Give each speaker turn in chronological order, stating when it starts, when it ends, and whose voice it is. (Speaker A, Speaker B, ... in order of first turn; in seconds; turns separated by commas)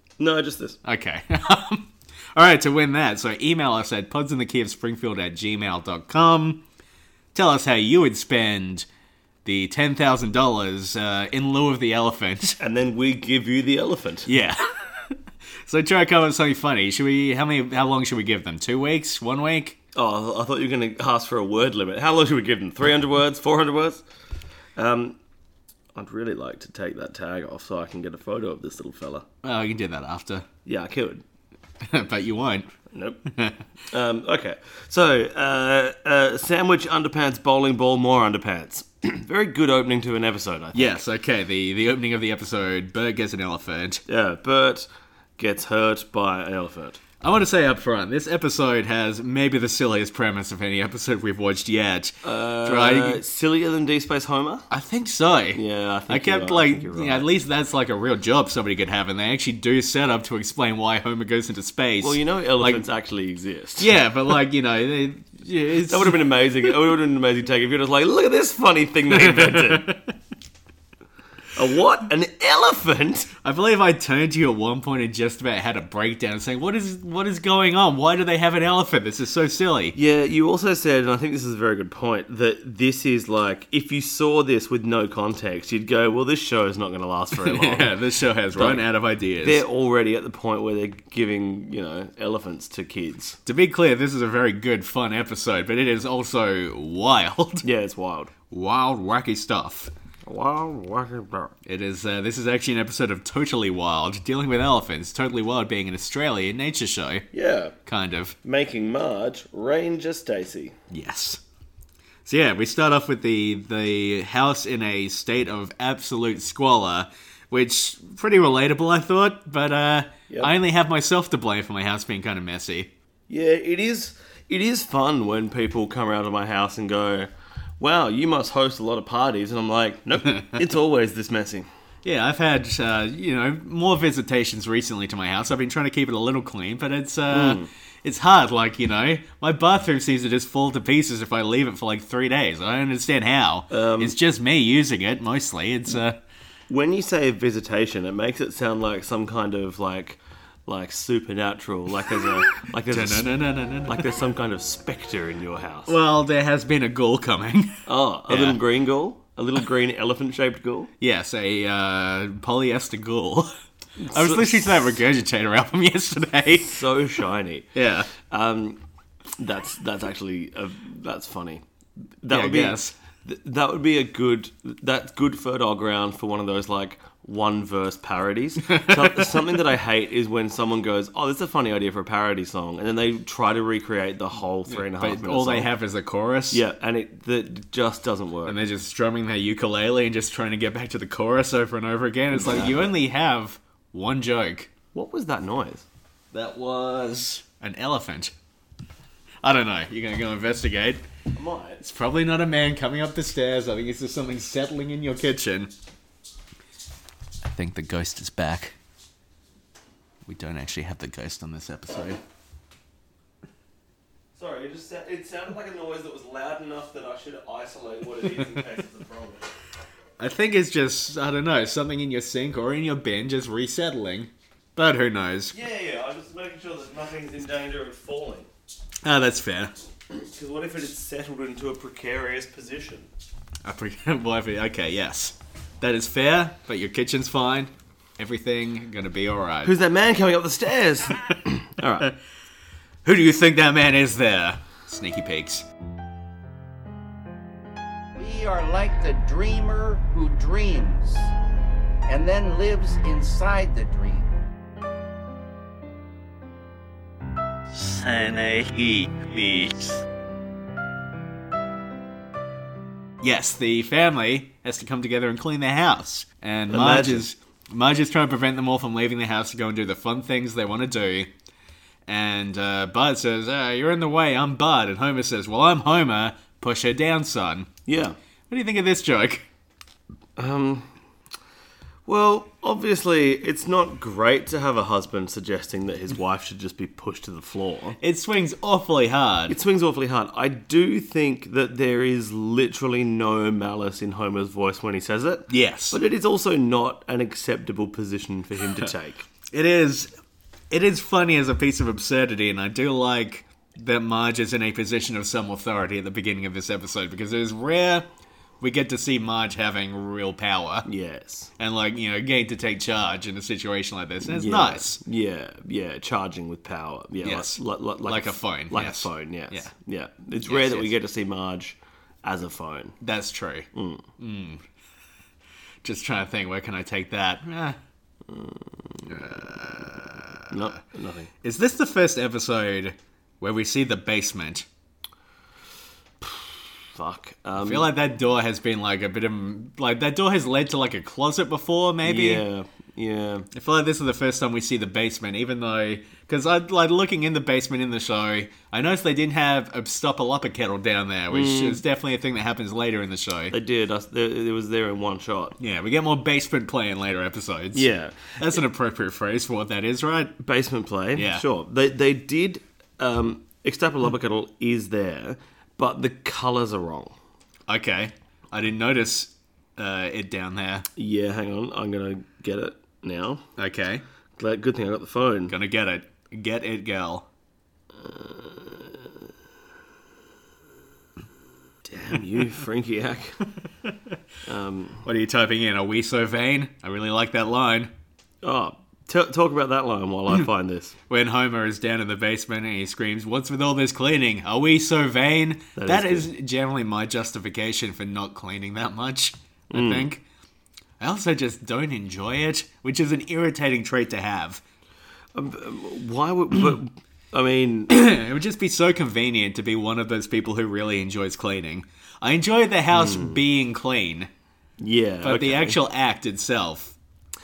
Speaker A: 0.2-0.8, Speaker B: 0.8-6.6, Speaker B: 7.3-8.9, Speaker B: 9.4-12.6, Speaker A: 12.6-14.3, Speaker B: 14.3-19.8, Speaker A: 19.9-24.0, Speaker A: 24.8-25.2, Speaker A: 25.9-29.2, Speaker B: 29.4-30.5, Speaker A: 30.6-31.2, Speaker B: 31.8-32.7, Speaker A: 32.9-33.2, Speaker B: 33.3-33.6, Speaker A: 33.9-41.0, Speaker B: 40.7-44.0, Speaker A: 44.1-44.9, Speaker A: 45.4-47.0, Speaker B: 47.2-53.2, Speaker A: 52.2-54.7, Speaker B: 54.7-62.9, Speaker A: 55.5-57.3, Speaker A: 62.0-63.9, Speaker B: 63.8-66.2, Speaker A: 65.9-70.0, Speaker B: 69.1-70.1, Speaker A: 71.5-73.3, Speaker B: 73.4-80.0, Speaker A: 80.0-87.9, Speaker B: 87.4-89.6, Speaker A: 88.5-88.8, Speaker A: 89.4-93.4, Speaker B: 93.5-97.7, Speaker A: 97.6-98.3, Speaker B: 98.5-99.9, Speaker A: 100.3-101.5, Speaker B: 101.7-107.3, Speaker A: 107.3-107.8, Speaker B: 107.9-108.3, Speaker A: 108.4-110.8, Speaker B: 110.9-111.4, Speaker B: 112.2-122.9, Speaker A: 123.3-131.7, Speaker B: 132.0-146.2, Speaker A: 137.3-137.7, Speaker A: 143.7-144.2, Speaker A: 146.7-153.3, Speaker B: 152.9-154.1, Speaker A: 153.8-155.9, Speaker B: 155.9-158.6, Speaker A: 157.9-160.9, Speaker B: 161.0-163.5, Speaker A: 164.0-164.6, Speaker B: 164.1-166.8, Speaker A: 166.7-168.8, Speaker B: 167.8-168.1, Speaker A: 169.4-171.6, Speaker A: 172.2-185.7, Speaker B: 172.3-172.9, Speaker B: 178.7-179.2, Speaker B: 184.7-186.6, Speaker A: 186.5-188.6, Speaker B: 188.5-194.7, Speaker A: 192.3-192.8, Speaker A: 194.9-195.9, Speaker B: 196.3-198.3, Speaker B: 199.4-201.0, Speaker A: 201.3-201.8, Speaker B: 201.8-205.7, Speaker B: 207.4-208.8, Speaker B: 210.3-212.2, Speaker A: 214.4-219.5, Speaker B: 220.2-225.6, Speaker A: 225.5-228.5, Speaker B: 229.0-229.7, Speaker A: 230.1-233.1, Speaker B: 233.6-239.7, Speaker A: 239.6-242.1, Speaker B: 243.1-245.7, Speaker C: 248.2-251.3, Speaker C: 252.1-254.3, Speaker B: 257.7-260.0, Speaker B: 263.2-271.3, Speaker A: 266.7-267.2, Speaker B: 272.1-277.7, Speaker A: 277.9-278.2, Speaker B: 278.5-279.4, Speaker A: 280.4-280.9, Speaker A: 282.1-288.0, Speaker B: 288.0-289.6, Speaker A: 289.5-299.3, Speaker B: 295.5-296.0, Speaker B: 299.5-300.1, Speaker B: 300.7-308.1, Speaker B: 308.6-310.9, Speaker A: 310.9-311.5, Speaker B: 311.6-315.0, Speaker A: 314.2-323.0, Speaker B: 317.2-319.7, Speaker B: 320.5-320.9, Speaker B: 323.0-324.6, Speaker A: 323.8-324.1, Speaker B: 325.8-327.8, Speaker A: 328.3-329.2, Speaker B: 329.1-330.8, Speaker A: 330.5-331.3, Speaker B: 331.4-334.7, Speaker A: 336.2-337.9, Speaker B: 337.6-342.4, Speaker A: 342.0-343.5, Speaker B: 343.5-353.5, Speaker A: 351.3-351.8, Speaker A: 353.5-355.6, Speaker B: 355.6-360.4, Speaker A: 357.7-358.4, Speaker A: 360.4-367.2, Speaker B: 361.1-361.4, Speaker B: 367.7-370.9, Speaker A: 371.0-373.4, Speaker B: 373.6-374.0, Speaker A: 374.4-375.6, Speaker B: 375.5-377.3, Speaker A: 377.9-379.1, Speaker A: 381.9-383.4, Speaker A: 384.5-385.1, Speaker B: 385.1-387.9, Speaker A: 388.4-391.0, Speaker B: 391.1-400.2, Speaker A: 395.8-396.3, Speaker A: 399.7-400.1, Speaker B: 401.0-404.6, Speaker A: 405.4-407.9, Speaker B: 407.9-414.3, Speaker A: 412.9-413.4, Speaker A: 414.8-415.8, Speaker B: 415.2-416.9